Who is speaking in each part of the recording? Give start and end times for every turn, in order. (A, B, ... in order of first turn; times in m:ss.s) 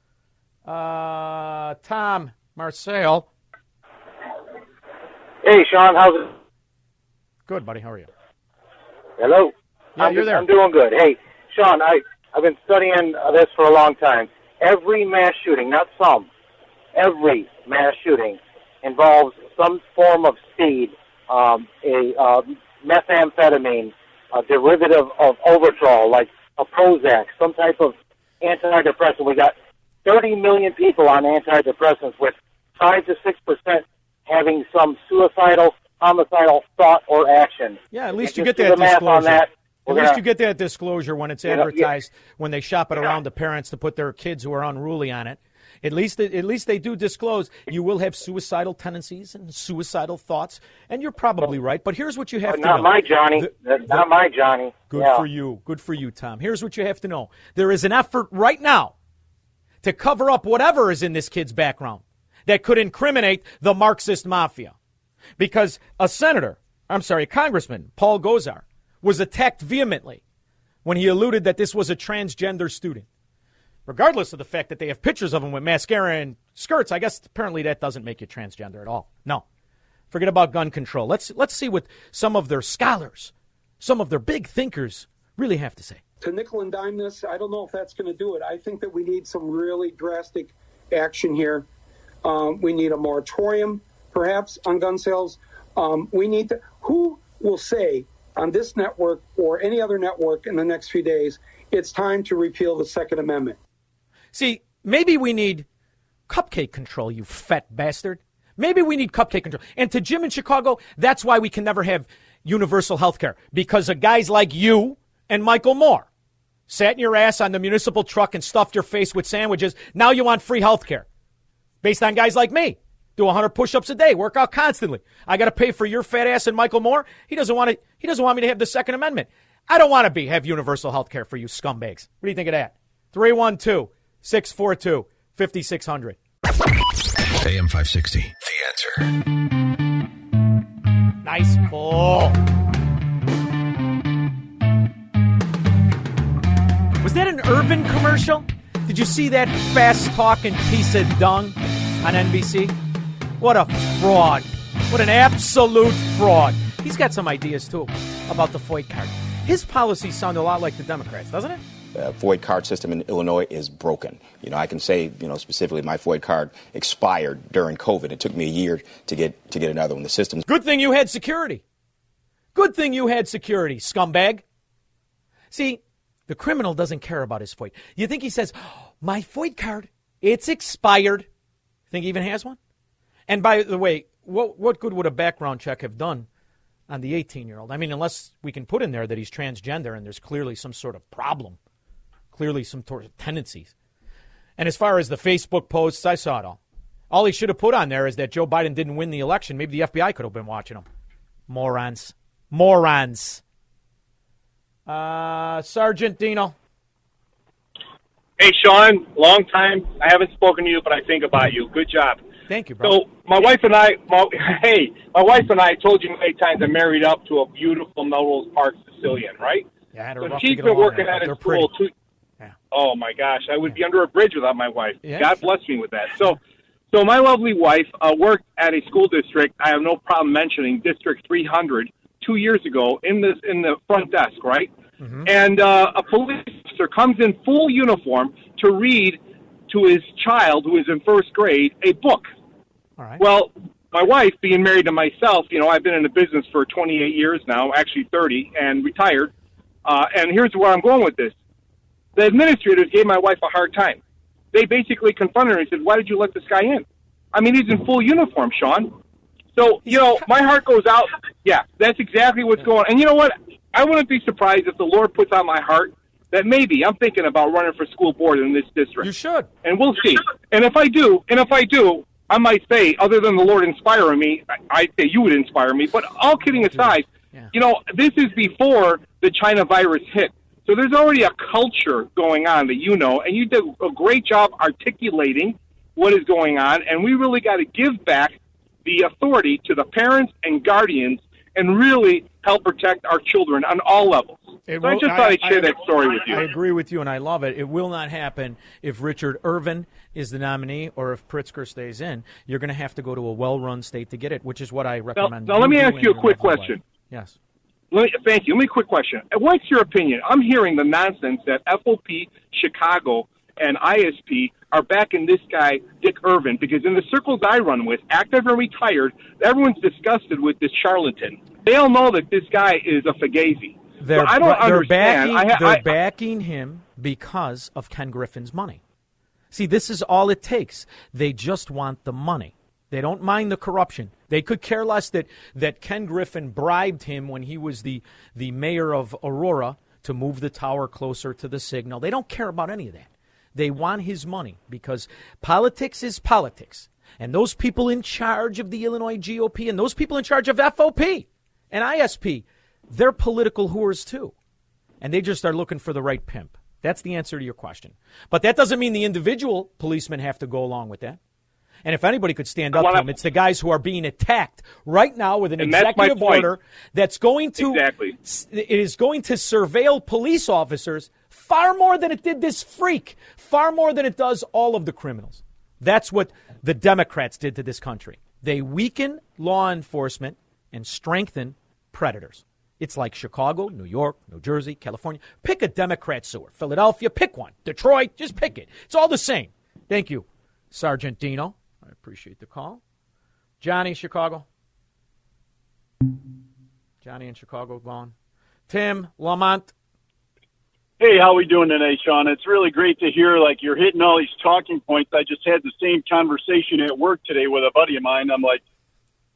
0:00.6-0:03.3 A
0:05.4-0:06.3 B
0:07.5-0:08.1 A
0:09.2-0:16.3 B
0:10.0-0:10.4 A
0:16.9-0:40.2 B
0:37.9-0:54.0 A
0:41.5-0:41.8 B
0:52.5-0:55.2 B
0:54.9-0:58.9 A
0:59.8-1:04.8 A
1:05.4-1:10.2 A
1:10.8-1:13.1 A
1:13.9-1:19.4 A
1:20.1-1:26.0 A
1:26.2-1:31.6 C
1:32.2-1:43.6 C
1:44.3-1:45.6 A
1:46.3-1:56.1 A
1:56.7-2:01.0 A
2:01.8-2:16.2 A
2:17.4-2:19.1 D
2:21.2-2:22.4 A
2:27.0-2:32.7 A
2:33.4-2:41.6 A
2:41.9-2:50.4 D
2:50.5-2:51.6 A
2:52.5-2:54.4 A
2:55.5-3:01.3 A
3:01.9-3:02.6 A
3:03.3-3:06.3 A
3:06.9-3:11.6 A
3:12.3-3:13.7 A
3:14.6-3:20.8 A
3:21.5-3:23.4 A
3:24.9-3:26.5 A
3:28.4-3:32.2 E
3:32.5-3:33.0 A
3:32.8-3:39.7 E
3:39.9-3:41.7 A
3:40.2-3:41.9 E
3:42.7-3:46.4 E
3:45.0-3:45.4 A
3:46.9-3:54.7 E
3:55.0-3:55.3 A
3:55.2-4:02.3 E
4:03.0-4:03.2 A
4:03.2-4:09.3 E
4:09.8-4:11.3 E
4:12.2-4:14.0 E
4:14.5-4:18.9 E
4:19.5-4:29.1 E
4:19.8-4:20.2 A
4:29.0-4:29.5 A
4:29.6-4:56.5 E
4:36.5-4:37.5 A
4:54.7-5:07.4 A
5:05.2-5:06.8 E
5:07.9-5:25.9 E
5:24.0-5:28.8 A
5:29.5-5:54.3 A
5:55.0-6:01.2 A
6:01.8-6:32.8 A
6:02.7-6:03.1 E
6:05.6-6:06.5 E
6:07.6-6:08.2 E
6:33.6-6:34.4 A
6:37.0-6:38.1 A
6:38.7-6:39.7 A
6:41.0-6:48.6 F